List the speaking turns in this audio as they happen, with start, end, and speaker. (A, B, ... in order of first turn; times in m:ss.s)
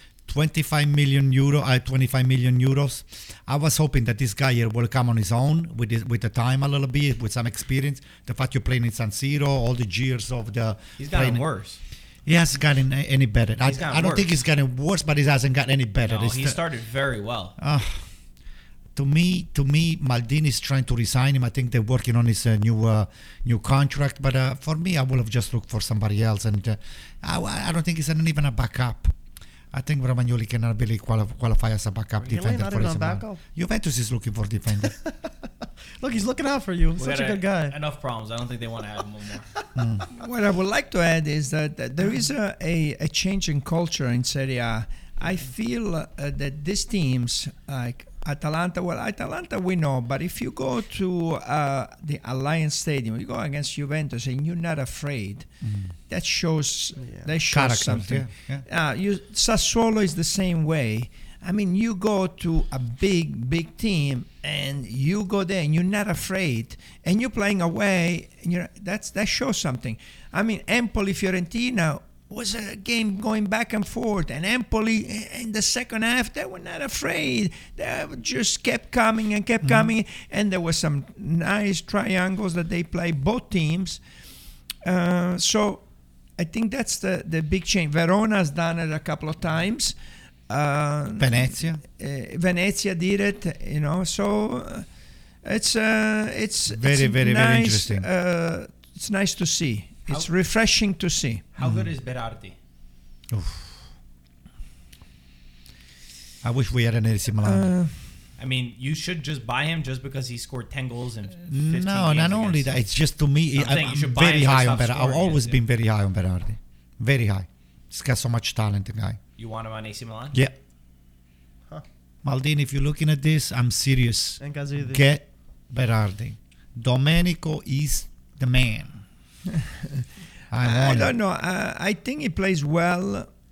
0:00.3-0:11.4 A
0:11.0-0:11.8 B
0:12.2-0:16.6 A
0:13.6-0:14.3 B
0:16.0-0:17.6 B
0:17.6-0:18.1 A
0:18.9-0:29.1 A
0:29.7-0:34.9 A
0:32.2-0:33.4 C
0:35.0-0:35.3 C
0:36.0-0:37.8 C
0:37.0-0:39.5 B
0:39.8-0:40.0 A
0:40.2-0:55.5 D
0:55.6-0:55.9 A
0:56.1-1:24.0 D
0:57.0-0:57.3 C
0:57.5-0:58.6 A
1:19.6-1:19.9 A
1:24.8-1:29.9 D
1:30.5-1:34.9 D
1:31.2-1:31.8 A
1:35.4-1:41.4 D
1:36.7-1:38.1 A
1:41.5-1:42.6 B
1:41.6-1:41.9 A
1:43.3-1:43.7 A
1:46.4-1:47.7 A
1:47.4-1:48.2 D
1:48.4-1:52.7 B
1:51.5-1:59.2 A
1:53.5-1:55.6 B
1:59.4-2:00.4 B
2:02.2-2:09.0 A
2:04.4-2:05.0 C
2:09.5-2:10.0 D
2:10.5-2:11.2 A
2:10.6-2:13.3 D